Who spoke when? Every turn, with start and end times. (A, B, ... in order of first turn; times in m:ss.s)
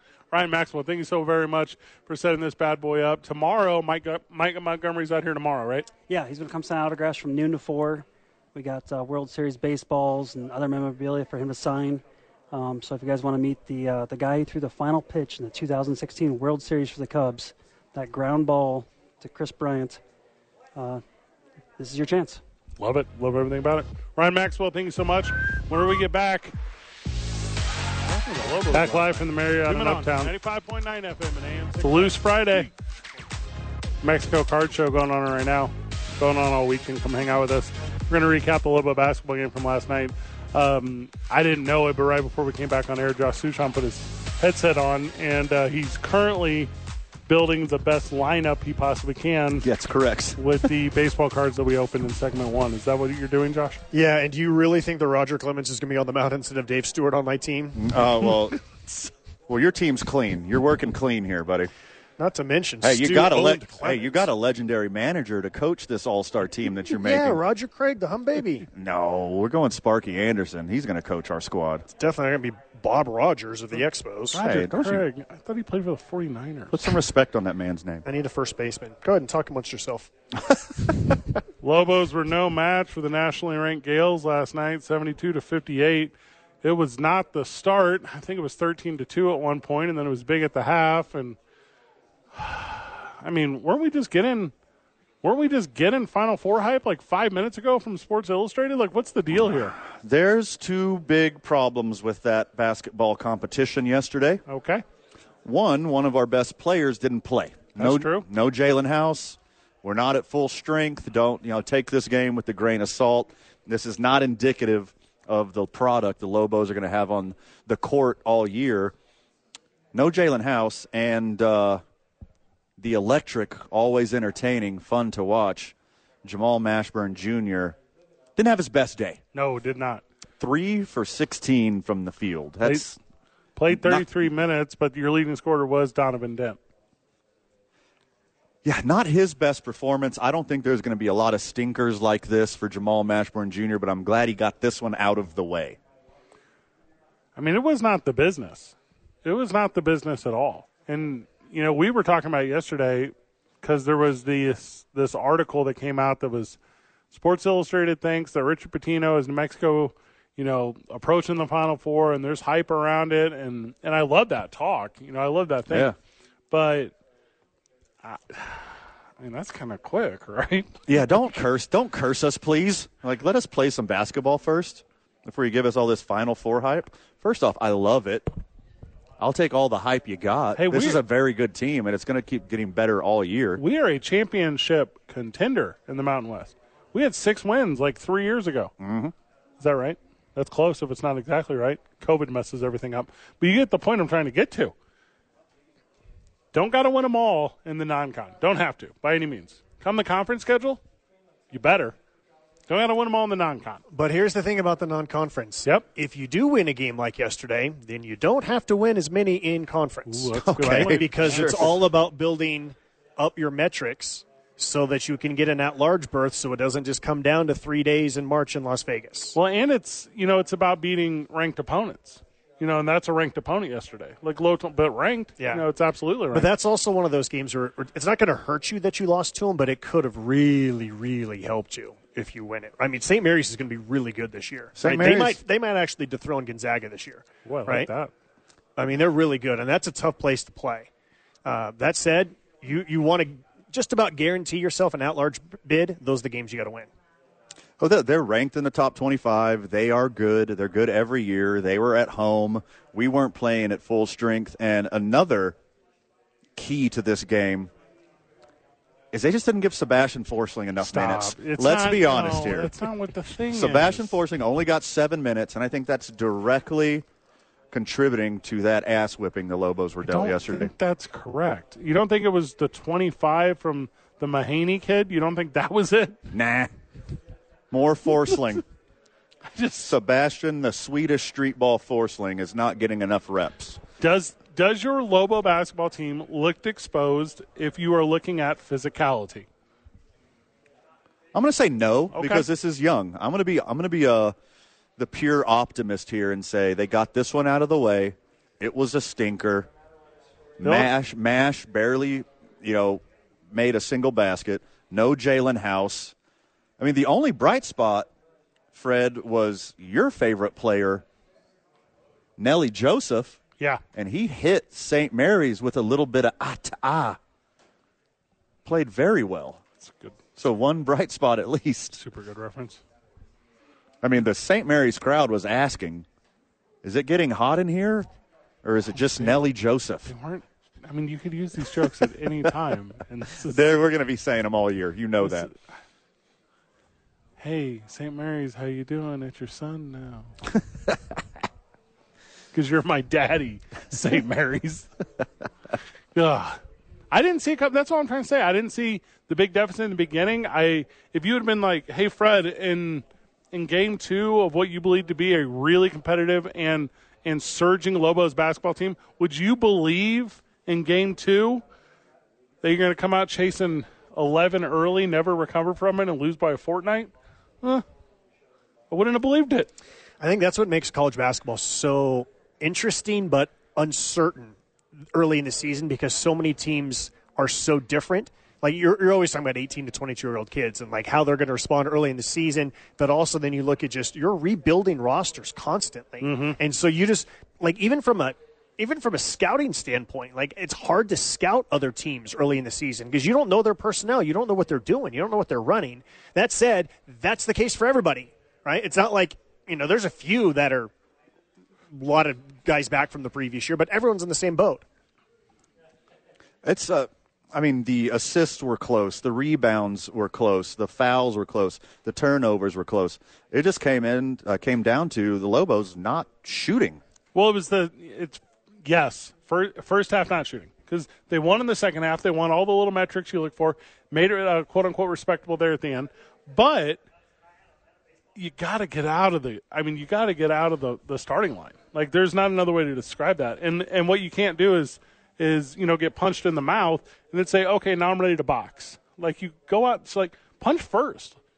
0:00.3-0:05.9 A
0:06.1-0:20.0 B
0:20.8-0:21.0 B
0:21.8-0:22.4 B
0:22.8-0:26.5 A
0:28.1-0:32.7 A
0:28.8-0:29.1 C
0:28.8-0:30.3 B
0:31.8-0:32.1 C
0:34.0-0:46.7 A
0:47.3-0:49.7 A
0:49.6-0:50.4 D
0:50.4-0:53.8 A
0:53.9-0:57.8 C
0:57.8-1:01.7 D
1:02.2-1:04.3 C
1:02.8-1:07.4 D
1:07.0-1:08.7 C
1:08.7-1:11.9 D
1:12.0-1:14.5 C
1:14.3-1:16.9 A
1:14.3-1:15.1 D
1:16.7-1:18.0 D
1:18.0-1:20.1 C
1:20.4-1:21.1 D
1:21.6-1:31.4 A
1:32.3-1:34.5 A
1:35.2-1:39.8 A
1:39.8-1:44.4 D
1:44.5-1:44.8 A
1:45.4-1:58.9 D
1:47.8-1:48.3 A
1:59.9-2:01.8 D
2:02.8-2:07.8 D
2:08.4-2:09.2 D
2:09.3-2:10.0 A
2:10.4-2:13.0 D
2:13.6-2:16.6 A
2:13.7-2:14.1 D
2:18.6-2:25.8 D
2:27.4-2:36.6 A
2:37.1-2:45.9 A
2:45.7-2:46.0 D
2:46.5-2:46.9 A
2:48.0-2:50.8 A
2:50.9-2:58.3 D
2:59.2-3:03.6 D
3:00.6-3:01.0 A
3:03.6-3:08.7 A
3:08.8-3:09.1 D
3:09.6-3:14.7 A
3:16.5-3:20.8 A
3:21.5-3:22.0 A
3:22.7-3:23.8 A
3:23.9-3:39.4 C
3:30.1-3:31.8 A
3:30.3-3:31.8 D
3:39.3-3:46.5 A
3:45.4-3:45.6 C
3:46.3-3:57.9 C
3:54.8-3:55.4 D
3:57.5-3:58.1 A
3:58.8-4:00.9 C
4:01.4-4:06.9 C
4:07.8-4:15.6 D
4:16.6-4:17.7 D
4:19.1-4:22.8 D
4:20.8-4:24.2 A
4:23.5-4:27.0 D
4:27.7-4:30.7 D
4:30.0-4:36.2 A
4:36.3-4:36.7 D
4:37.7-4:38.6 D
4:39.5-4:39.9 A
4:39.8-4:43.8 D
4:44.0-4:49.5 A
4:51.3-4:54.4 D
4:52.1-4:52.5 A
4:55.0-4:59.7 D
5:00.6-5:06.1 D
5:00.6-5:00.9 A
5:06.8-5:08.1 D
5:08.7-5:11.0 D
5:12.4-5:13.4 D
5:13.9-5:17.2 D
5:18.6-5:19.6 D
5:19.8-5:20.2 A
5:20.4-5:22.0 D
5:22.0-5:22.8 A
5:24.0-5:26.1 D
5:26.8-5:28.1 D
5:28.6-5:30.1 D
5:29.0-5:29.4 A
5:30.1-5:33.6 A
5:33.4-5:35.5 D
5:35.2-5:35.6 A
5:37.4-5:40.3 A
5:42.5-5:44.9 A
5:46.1-5:46.6 A
5:47.1-6:01.6 A
6:02.6-6:07.8 A
6:08.9-6:09.7 A
6:10.2-6:14.6 C
6:15.1-6:40.9 C
6:26.2-6:26.6 A
6:41.9-6:44.8 C
6:46.6-6:57.0 D
6:57.4-7:07.0 A
7:08.4-7:21.4 A